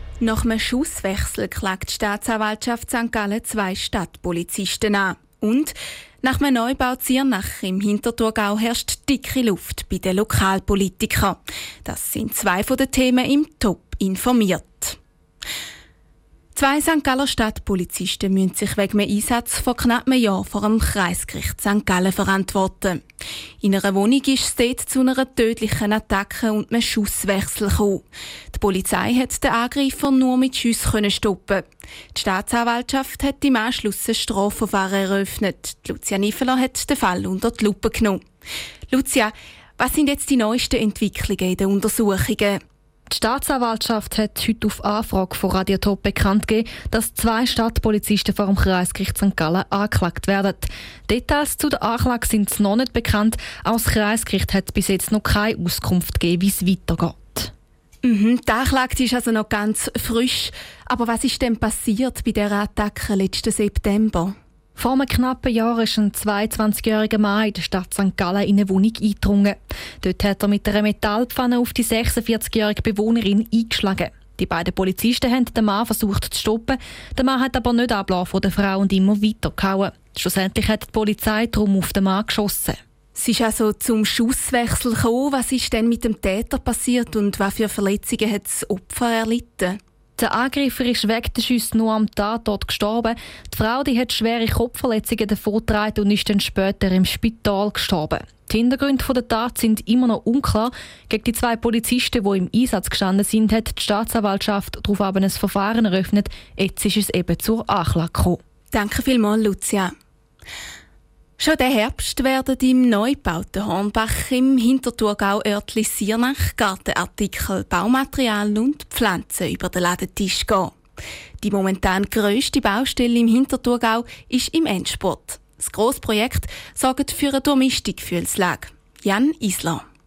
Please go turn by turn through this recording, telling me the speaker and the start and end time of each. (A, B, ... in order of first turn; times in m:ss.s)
0:00.2-0:15.0 A
0:16.5-0:23.0 A
0:23.6-0:38.2 A
0:38.9-0:42.6 A
0:43.1-0:57.5 B
0:58.0-1:04.3 A
1:04.8-1:22.8 B
1:23.1-1:29.8 A
1:30.2-1:48.4 B
1:48.7-1:49.9 A
1:51.4-2:00.7 A
2:01.4-2:09.8 A